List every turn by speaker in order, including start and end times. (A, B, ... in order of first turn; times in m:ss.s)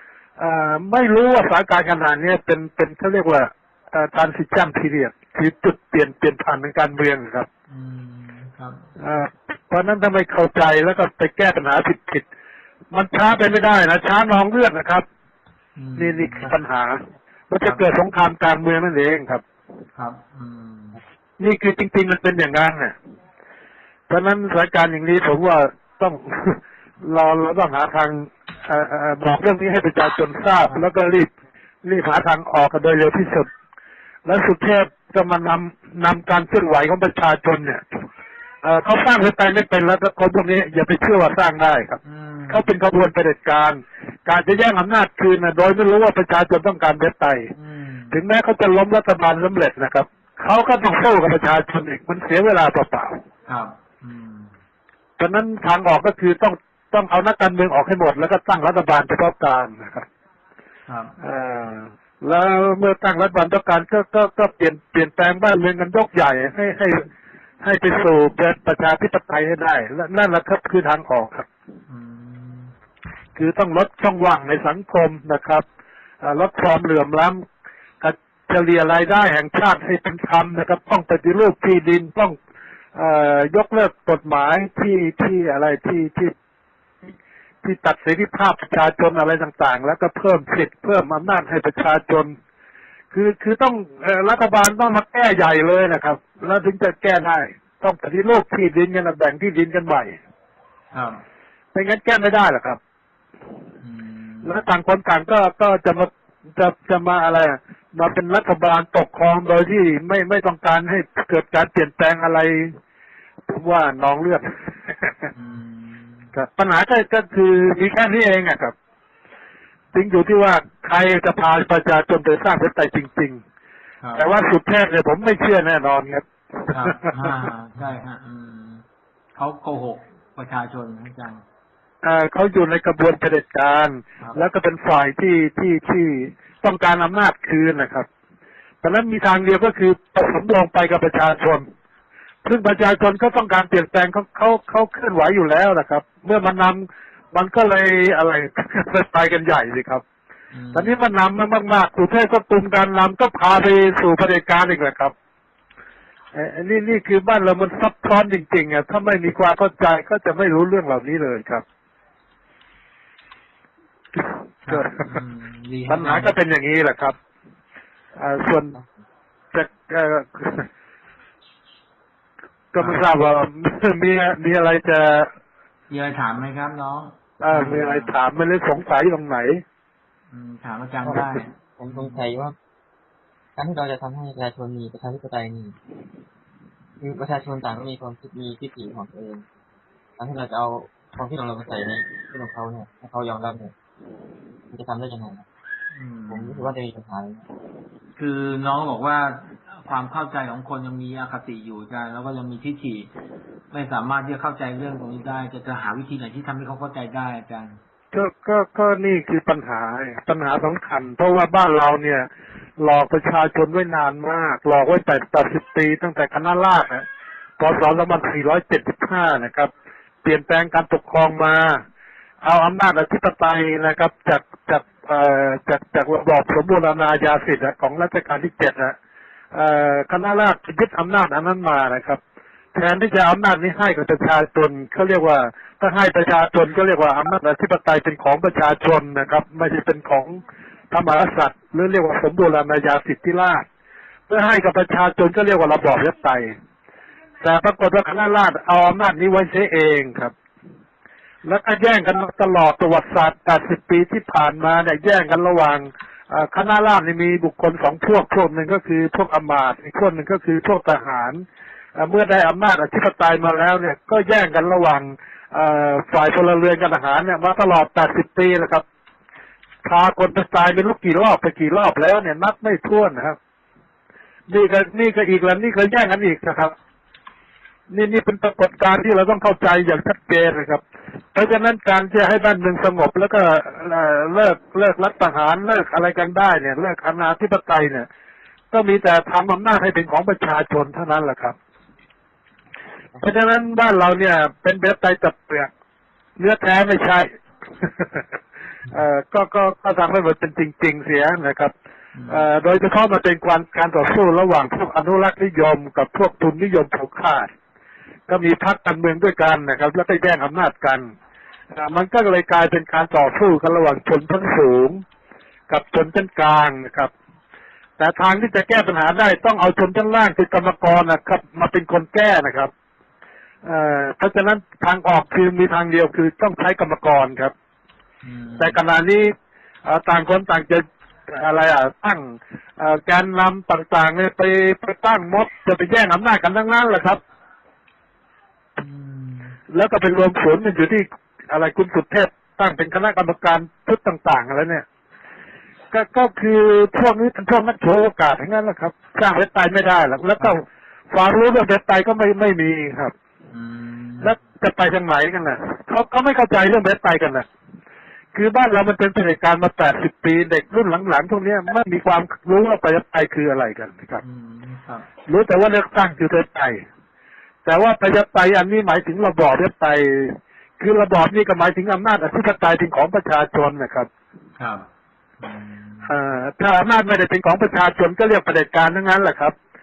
0:00.4-0:07.5 A
0:07.7-0:08.9 B
0:09.0-0:12.2 A
0:12.9-0:15.0 A
0:15.8-0:16.5 B
0:16.0-0:19.4 A
0:20.0-0:21.0 B
0:21.4-0:23.0 A
0:24.1-0:31.3 A
0:31.8-0:33.5 A
0:34.2-0:38.0 A
0:38.6-0:42.0 A
0:42.0-0:42.6 B
0:42.5-0:47.5 A
0:47.6-0:48.2 B
0:48.1-0:53.2 A
0:53.5-0:54.5 B
0:55.2-1:00.1 A
1:00.9-1:01.2 B
1:01.2-1:07.1 A
1:07.6-1:11.5 A
1:11.9-1:12.7 B
1:13.4-1:15.6 A
1:16.2-1:17.4 A
1:18.0-1:22.4 A
1:23.0-1:26.3 A
1:27.6-1:32.3 A
1:33.1-1:40.2 A
1:40.9-1:41.2 B
1:41.7-1:42.8 A
1:43.8-1:44.6 B
1:44.4-1:52.8 A
1:53.5-1:55.3 A
1:55.4-1:56.3 B
1:56.3-1:58.7 A
1:59.9-2:03.4 A
2:04.0-2:04.3 B
2:04.2-2:07.4 A
2:06.7-2:08.8 B
2:09.4-2:11.4 B
2:12.0-2:18.1 A
2:18.8-2:21.7 A
2:22.4-2:30.0 A
2:30.5-2:31.0 B
2:30.8-2:35.1 A
2:36.3-2:41.6 A
2:44.7-2:46.4 B
2:44.7-2:44.9 A
2:45.9-2:47.2 A
2:48.2-2:48.8 A
2:49.5-2:50.7 A
2:52.7-2:55.3 A
2:55.9-2:58.2 B
2:57.4-2:59.6 A
3:00.3-3:02.2 B
3:01.8-3:02.6 C
3:03.6-3:05.8 C
3:07.0-3:09.4 C
3:10.2-3:13.7 C
3:14.7-3:15.5 C
3:15.9-3:16.7 B
3:16.3-3:17.4 C
3:18.2-3:23.1 B
3:23.7-3:27.8 B
3:28.1-3:37.0 A
3:37.6-3:39.7 A
3:40.2-3:41.8 A
3:42.4-3:49.0 A
3:49.5-3:52.2 A
3:52.7-4:03.6 A
4:04.3-4:06.5 A
4:07.4-4:10.3 A
4:11.4-4:21.4 A
4:22.0-4:28.8 A
4:29.8-4:33.4 A
4:34.5-4:36.8 A
4:37.9-4:40.8 A
4:41.3-4:48.1 A
4:48.7-4:51.6 A
4:53.2-4:55.7 A
4:56.4-4:57.3 A
4:57.8-4:58.2 A
4:58.9-5:01.7 A
5:02.2-5:02.4 B
5:02.3-5:07.5 A
5:08.3-5:11.1 A
5:11.7-5:15.0 A
5:15.7-5:17.1 A
5:18.0-5:22.7 A
5:23.6-5:27.5 A
5:28.2-5:28.8 B
5:28.6-5:29.3 A
5:29.8-5:37.2 A
5:38.8-5:39.6 B
5:39.7-5:44.8 A
5:45.9-5:53.1 A
5:53.5-5:54.4 B
5:54.2-5:57.5 A
5:58.3-6:04.2 A
6:04.2-6:05.1 B
6:05.3-6:06.8 A
6:07.6-6:14.1 A
6:14.6-6:14.9 B
6:15.4-6:16.2 B
6:16.1-6:19.6 A